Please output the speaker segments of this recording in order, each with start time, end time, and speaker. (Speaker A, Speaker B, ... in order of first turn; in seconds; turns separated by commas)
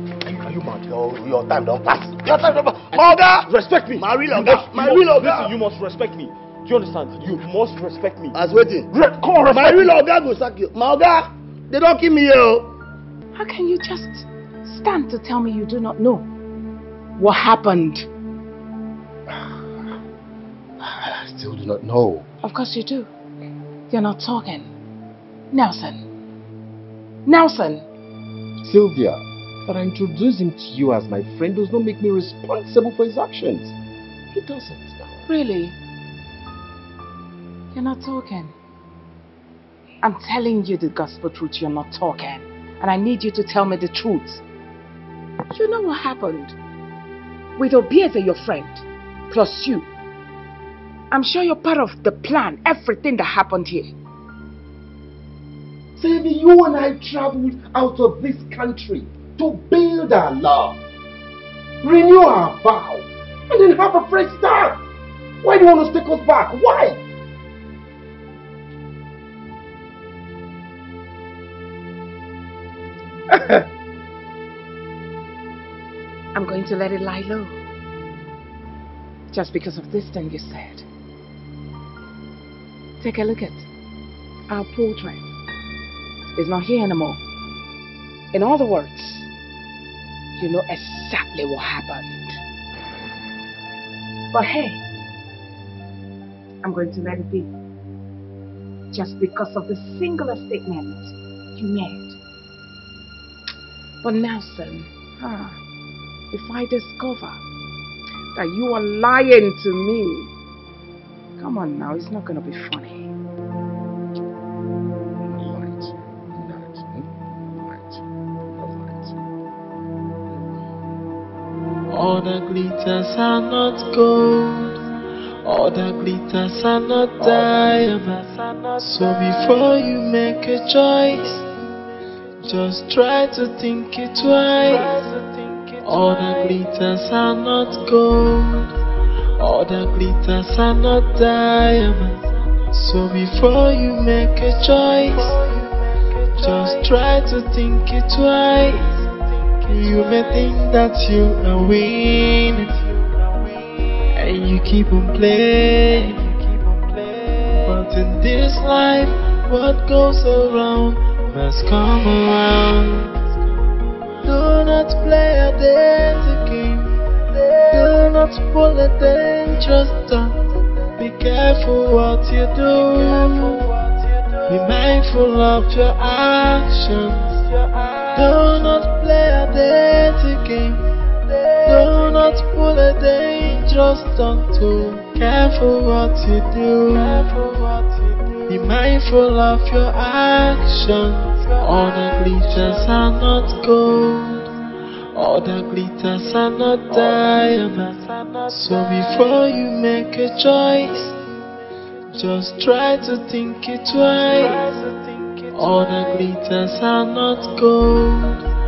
Speaker A: 0.3-5.6, Speaker B: 2.9-8.3, Speaker A: 8.3-12.7, Speaker C: 9.1-9.8, Speaker D: 13.3-16.3, Speaker D: 17.2-18.1, Speaker C: 20.8-22.3, Speaker D: 22.4-23.1, Speaker D: 23.9-24.7, Speaker D: 25.5-26.1, Speaker D: 27.3-27.9, Speaker C: 28.6-33.8, Speaker C: 34.3-35.2, Speaker D: 35.3-35.8, Speaker D: 37.7-38.5, Speaker D: 40.0-44.4, Speaker D: 45.5-46.6, Speaker D: 47.6-49.9, Speaker D: 51.1-53.9, Speaker C: 56.0-60.8, Speaker C: 61.8-64.8, Speaker C: 65.4-67.0, Speaker D: 73.3-73.6, Speaker D: 76.3-77.6, Speaker D: 79.3-80.8, Speaker D: 83.0-83.7, Speaker D: 84.5-85.3, Speaker D: 86.3-87.2, Speaker D: 88.3-89.3, Speaker D: 90.4-92.4, Speaker D: 94.3-94.8, Speaker D: 96.6-97.5, Speaker D: 98.9-102.2, Speaker D: 104.0-105.6, Speaker D: 106.3-107.4, Speaker D: 108.3-110.3, Speaker D: 111.4-113.1, Speaker C: 115.2-118.0, Speaker C: 118.5-119.2, Speaker E: 121.9-124.8, Speaker E: 125.4-131.5, Speaker E: 132.4-138.8, Speaker E: 139.4-149.1, Speaker E: 149.6-152.9, Speaker E: 154.1-163.2, Speaker E: 164.2-170.4, Speaker E: 171.0-173.7, Speaker E: 174.5-177.5, Speaker E: 178.1-180.9, Speaker E: 181.6-187.5, Speaker E: 188.5-194.5, Speaker E: 195.1-201.2, Speaker E: 202.1-208.5